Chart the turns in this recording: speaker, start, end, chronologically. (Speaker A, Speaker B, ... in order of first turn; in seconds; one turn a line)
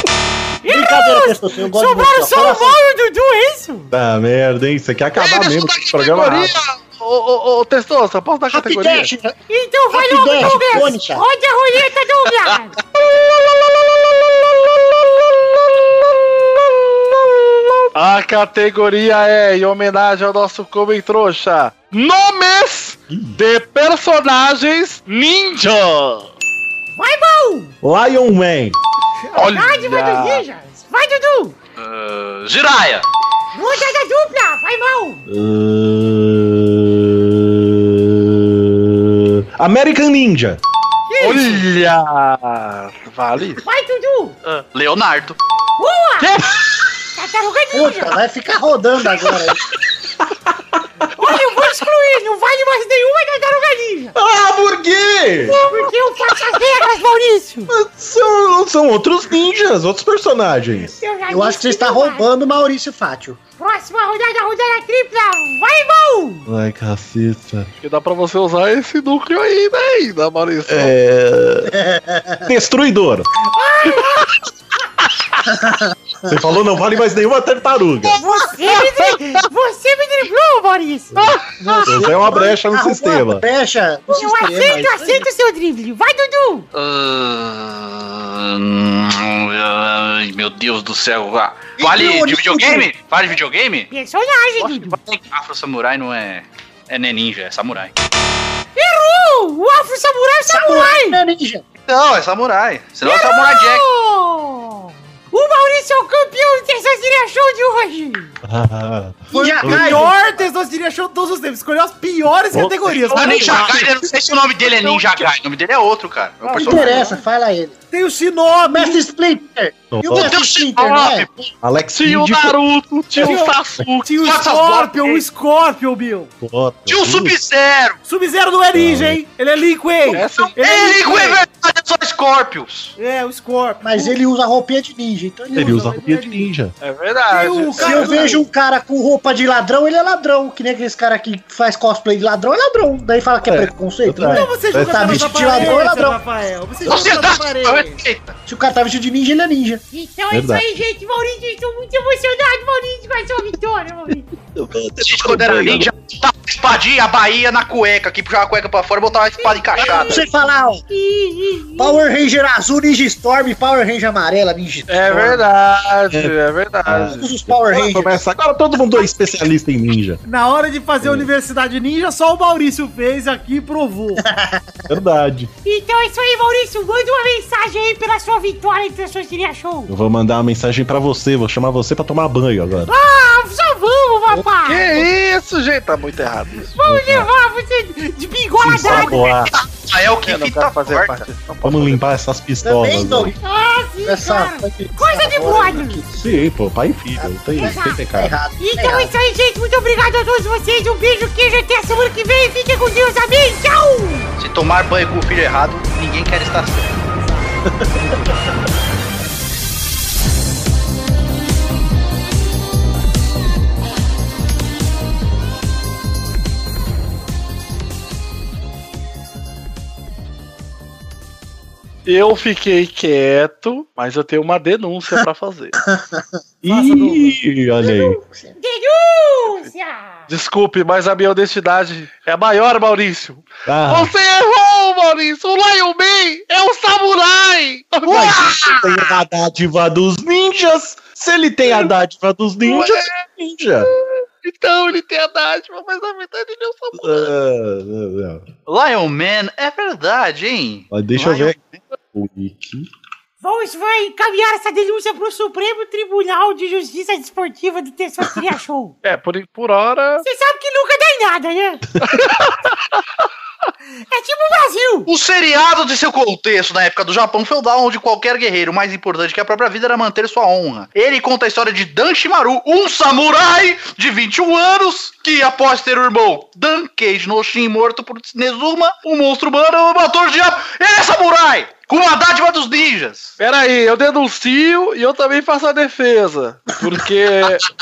Speaker A: 0.6-3.9
Speaker B: 0.7-2.8
Speaker C: 3.9-6.6
Speaker D: 5.1-9.1
Speaker B: 8.5-9.3
Speaker A: 9.5-12.8
Speaker B: 9.9-11.2
Speaker C: 10.4-10.7
Speaker D: 13.2-13.7
Speaker D: 15.7-16.0
Speaker D: 17.9-26.3
Speaker C: 23.1-23.4
Speaker A: 26.9-27.8
Speaker C: 27.8-28.8
Speaker E: 29.2-29.5
Speaker D: 29.3-30.4
Speaker A: 29.4-31.6
Speaker F: 31.8-33.1
Speaker A: 33.5-35.2
Speaker C: 35.3-40.6
Speaker A: 41.1-41.7
Speaker D: 41.2-43.6
Speaker A: 43.6-44.4
Speaker F: 44.5-45.4
Speaker A: 45.8-46.4
Speaker F: 46.2-46.9
Speaker A: 47.1-48.2
Speaker B: 47.7-49.6
Speaker C: 50.2-51.1
Speaker A: 51.1-54.1
Speaker C: 54.2-55.7
Speaker A: 55.5-57.7
Speaker C: 57.7-61.0
Speaker A: 61.0-62.3
Speaker B: 61.3-63.4
Speaker A: 63.6-66.5
Speaker C: 66.5-67.7
Speaker D: 67.8-71.0
Speaker C: 70.7-71.8
Speaker B: 71.8-72.5
Speaker C: 72.5-73.3
Speaker A: 73.5-74.3
Speaker B: 75.5-76.0
Speaker C: 76.3-78.2
Speaker A: 78.2-82.0
Speaker B: 81.6-85.3
Speaker C: 81.9-83.4
Speaker A: 84.1-86.7
Speaker F: 86.7-93.9
Speaker B: 91.8-92.9
Speaker A: 93.9-95.0
Speaker F: 94.6-97.9
Speaker A: 98.8-101.2
Speaker B: 100.5-101.6
Speaker F: 101.9-103.8
Speaker A: 103.0-108.3
Speaker C: 108.5-110.2
Speaker B: 109.3-110.1
Speaker E: 109.3-113.7
Speaker C: 112.5-113.8
Speaker F: 113.1-117.1
Speaker E: 116.4-117.2
Speaker B: 116.5-117.8
Speaker E: 117.9-119.0
Speaker B: 118.7-121.5
Speaker C: 119.9-120.4
Speaker F: 120.1-121.3
Speaker C: 121.6-122.6
Speaker D: 122.0-124.3
Speaker E: 123.2-126.3
Speaker F: 124.2-125.2
Speaker C: 126.4-127.4
Speaker F: 126.9-128.0
Speaker E: 128.1-131.4
Speaker C: 128.8-129.2
Speaker D: 130.1-130.6
Speaker F: 130.6-132.9
Speaker E: 133.0-134.2
Speaker B: 133.8-135.9
Speaker E: 135.5-136.5
Speaker C: 135.6-136.8
Speaker D: 136.8-138.4
Speaker E: 137.3-138.4
Speaker B: 137.8-146.2
Speaker C: 143.4-145.8
Speaker E: 144.3-148.0
Speaker F: 146.9-148.3
Speaker B: 148.5-149.8
Speaker A: 149.9-154.3
Speaker C: 150.3-150.7
Speaker C: 154.6-155.9
Speaker F: 155.0-160.3
Speaker A: 159.4-162.0
Speaker B: 159.8-160.8
Speaker B: 161.8-165.4
Speaker D: 164.9-167.2
Speaker C: 166.1-170.2
Speaker B: 167.0-168.2
Speaker A: 168.8-169.4
Speaker E: 170.2-174.2
Speaker C: 171.0-171.3
Speaker B: 174.2-174.8
Speaker C: 174.9-175.5
Speaker A: 175.7-179.9
Speaker C: 179.9-182.9
Speaker A: 182.9-185.1
Speaker D: 184.6-186.8
Speaker A: 186.8-189.4
Speaker C: 186.8-187.3
Speaker C: 188.6-189.6
Speaker F: 189.6-191.2
Speaker D: 190.2-192.1
Speaker C: 191.6-193.4
Speaker B: 192.6-193.3
Speaker A: 193.4-196.0
Speaker B: 194.0-196.4
Speaker C: 196.2-198.4
Speaker B: 197.2-199.1
Speaker A: 197.6-198.1
Speaker A: 198.6-204.3
Speaker F: 204.4-206.9
Speaker E: 207.1-208.4
Speaker C: 207.7-208.1
Speaker D: 222.1-225.7
Speaker B: 225.9-226.2
Speaker C: 226.6-228.2
Speaker E: 226.7-227.4
Speaker A: 227.8-230.3
Speaker B: 228.2-228.5
Speaker D: 230.3-239.0
Speaker C: 233.7-234.1
Speaker C: 238.1-243.9
Speaker D: 242.6-243.2
Speaker D: 243.8-247.3
Speaker C: 246.9-248.4
Speaker F: 248.7-251.8
Speaker C: 250.9-251.6
Speaker C: 252.1-252.9
Speaker A: 253.4-259.0
Speaker D: 259.0-260.2
Speaker A: 260.2-261.8
Speaker D: 262.1-263.0
Speaker A: 264.0-265.1
Speaker F: 265.1-283.4
Speaker D: 283.4-287.7